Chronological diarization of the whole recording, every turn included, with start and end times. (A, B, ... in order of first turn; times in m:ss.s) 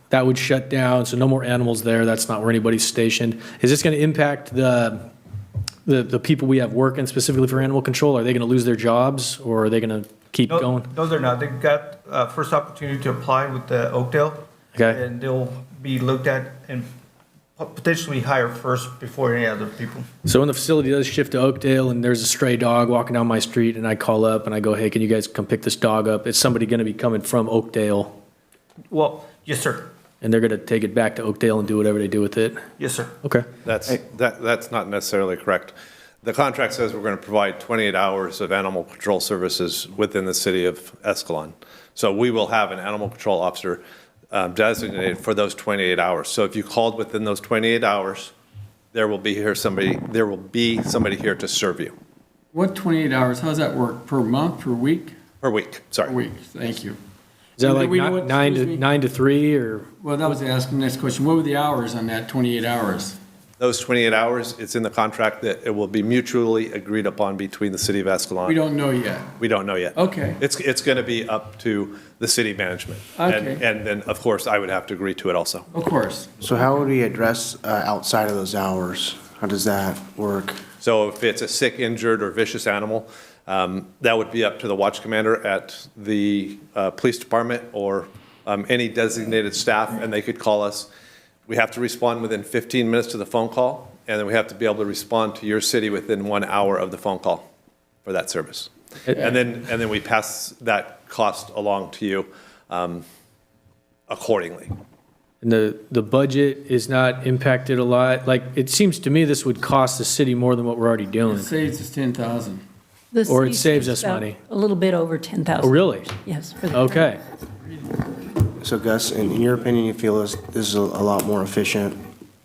0:00.1-0:05.0 A
0:05.9-0:10.9 A
0:10.5-0:16.9 B
0:14.8-0:15.0 A
0:17.6-0:20.0 B
0:20.3-0:28.1 A
0:28.9-0:29.9 B
0:30.2-0:32.6 A
0:32.8-0:33.2 B
0:33.6-0:48.3 C
0:48.9-0:52.0 C
0:52.5-0:55.2 D
0:55.4-0:56.2 C
0:56.0-0:57.0 D
0:57.6-1:00.4 A
0:57.6-0:58.8 D
1:00.0-1:03.2 D
1:03.6-1:08.6 C
1:08.4-1:09.4 D
1:09.4-1:15.7 C
1:10.0-1:10.4 D
1:13.2-1:13.6 D
1:15.7-1:16.3 D
1:16.4-1:20.6 E
1:20.8-1:30.9 C
1:31.5-1:37.5 C
1:38.0-1:43.0 C
1:44.1-1:44.7 C
1:45.4-1:51.5 A
1:51.3-1:52.6 D
1:53.1-1:57.1 F
1:53.3-1:54.4 A
1:55.6-1:56.2 A
1:56.7-1:57.2 A
1:58.6-2:02.0 E